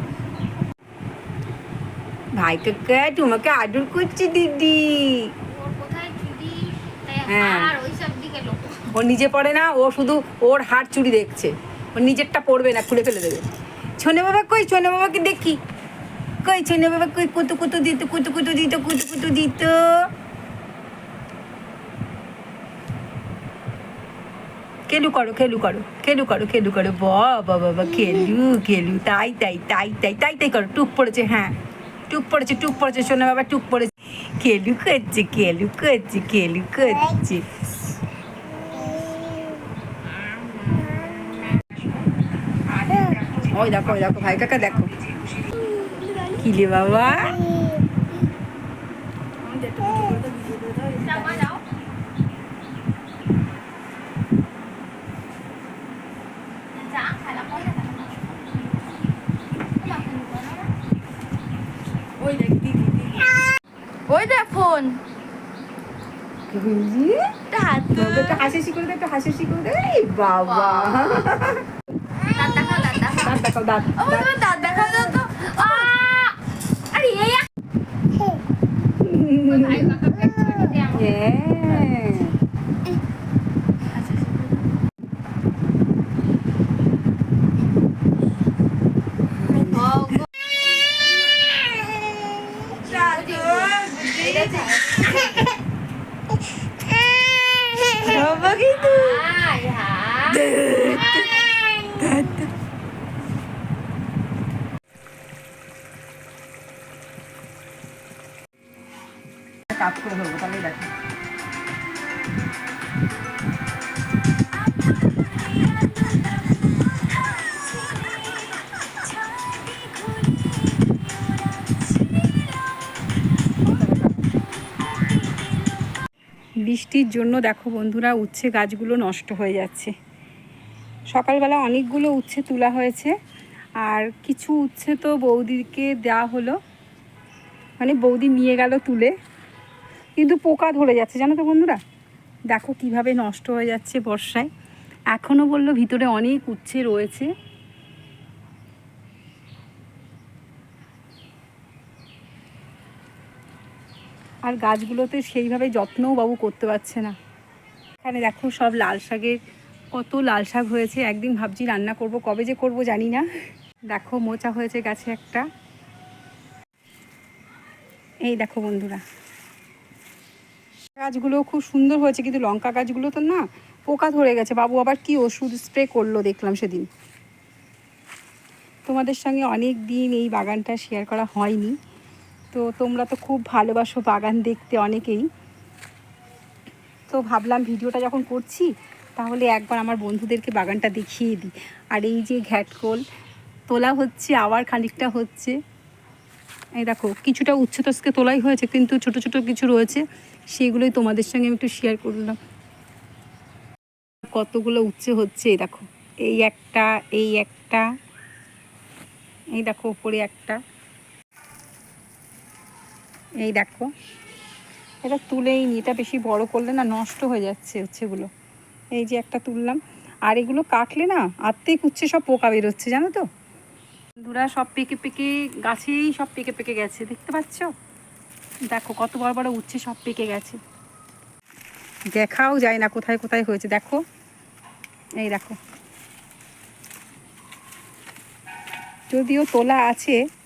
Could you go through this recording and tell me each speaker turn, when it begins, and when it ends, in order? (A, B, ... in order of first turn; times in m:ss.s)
0:02.4-0:05.3 A
0:05.5-0:08.7 B
0:07.3-0:07.7 A
0:08.9-0:13.4 A
0:14.0-0:15.6 A
0:16.4-0:20.0 A
0:24.9-0:31.6 A
0:32.1-0:37.4 A
0:40.4-0:41.9 A
0:42.7-0:45.0 A
0:46.2-0:47.4 A
0:49.4-0:51.5 A
0:51.0-0:51.6 B
0:56.8-0:58.8 B
0:59.8-1:00.7 B
1:02.2-1:03.2 A
1:04.1-1:05.0 B
1:06.5-1:07.2 A
1:07.5-1:08.5 B
1:07.9-1:11.6 A
1:10.4-1:11.3 B
1:12.2-1:13.4 B
1:13.2-1:14.4 A
1:13.9-1:16.4 B
1:15.6-1:15.9 A
1:16.9-1:17.5 B
1:18.9-1:19.9 A
1:19.4-1:22.0 B
1:20.9-1:22.3 A
1:29.4-1:30.2 A
1:29.6-1:30.2 B
1:32.6-1:35.4 A
1:32.8-1:35.5 B
1:37.8-1:42.0 B
1:37.9-1:39.2 A
1:40.3-1:42.5 A
1:49.7-1:50.9 A
2:01.6-2:01.9 A
2:03.7-2:04.2 A
2:06.7-2:09.9 A
2:11.1-2:13.1 A
2:13.8-2:16.6 A
2:17.8-2:19.1 A
2:20.2-2:21.8 A
2:22.5-2:24.5 A
2:25.1-2:27.3 A
2:34.5-2:37.2 A
2:38.0-2:39.4 A
2:39.9-2:43.3 A
2:43.9-2:45.5 A
2:48.3-2:49.0 A
2:51.0-2:56.9 A
2:58.9-3:01.8 A
3:02.5-3:05.2 A
3:07.1-3:13.0 A
3:13.7-3:15.6 A
3:16.8-3:20.0 A
3:20.5-3:22.4 A
3:24.2-3:27.8 A
3:29.6-3:30.6 A
3:33.4-3:33.9 A
3:35.0-3:38.3 A
3:39.0-3:43.2 A
3:44.2-3:47.7 A
3:48.7-3:50.6 A
3:52.1-3:54.0 A
3:55.2-3:55.6 A
3:59.1-4:00.2 A